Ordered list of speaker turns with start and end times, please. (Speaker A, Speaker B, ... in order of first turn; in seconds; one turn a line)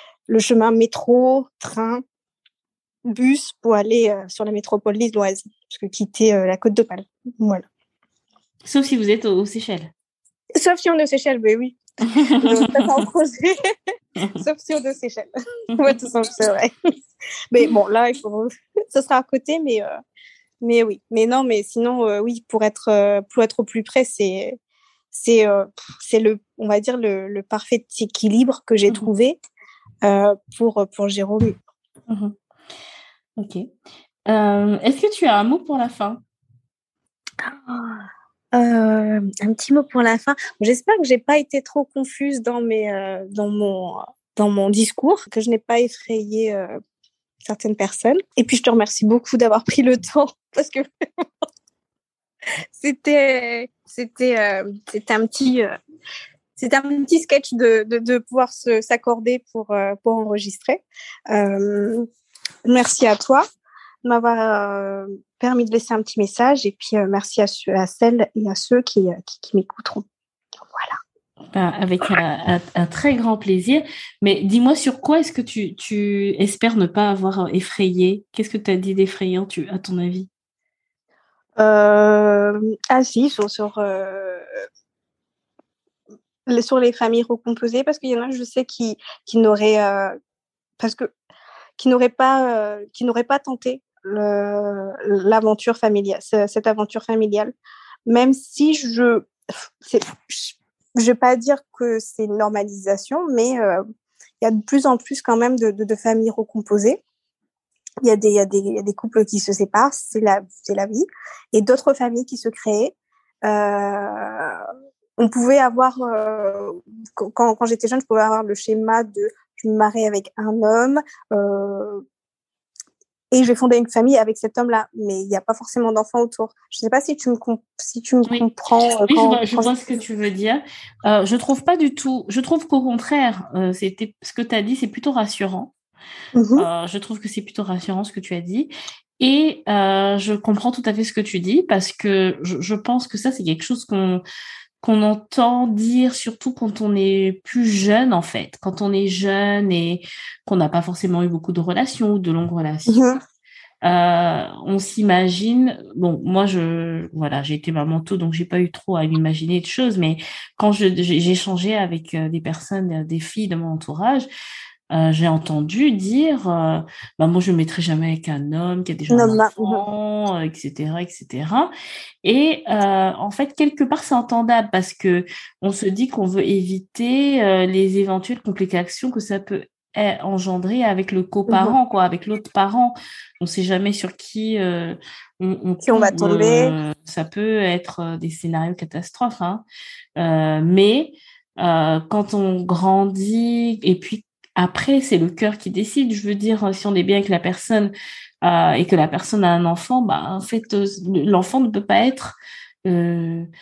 Speaker A: 0.3-2.0
Speaker A: 3.1-7.7
Speaker B: 8.7-9.9
Speaker A: 10.6-11.8
Speaker B: 12.1-12.9
Speaker A: 12.3-13.6
Speaker A: 14.4-16.8
Speaker A: 17.5-19.9
Speaker A: 20.6-24.6
Speaker A: 25.1-29.4
Speaker A: 30.0-31.6
Speaker B: 32.1-32.4
Speaker B: 33.4-33.7
Speaker B: 34.3-36.2
Speaker A: 37.4-46.8
Speaker A: 47.4-50.9
Speaker A: 52.7-55.7
Speaker A: 56.6-62.1
Speaker A: 62.6-63.5
Speaker A: 64.0-70.0
Speaker A: 70.7-71.0
Speaker B: 71.5-80.3
Speaker A: 81.6-84.4
Speaker A: 86.5-90.2
Speaker A: 90.8-91.1
Speaker A: 91.8-97.5
Speaker A: 98.1-99.3
Speaker A: 99.8-103.8
Speaker A: 104.4-107.0
Speaker A: 108.0-114.7
Speaker A: 115.2-122.0
Speaker A: 123.3-129.7
Speaker B: 129.1-135.7
Speaker A: 136.3-136.7
Speaker B: 136.6-144.2
Speaker B: 144.8-153.0
Speaker A: 152.9-153.2
Speaker B: 153.8-164.3
Speaker B: 164.9-171.7
Speaker A: 169.1-169.8
Speaker B: 172.2-189.6
Speaker A: 181.5-181.7
Speaker A: 185.8-186.7
Speaker B: 190.2-197.9
Speaker B: 198.4-203.5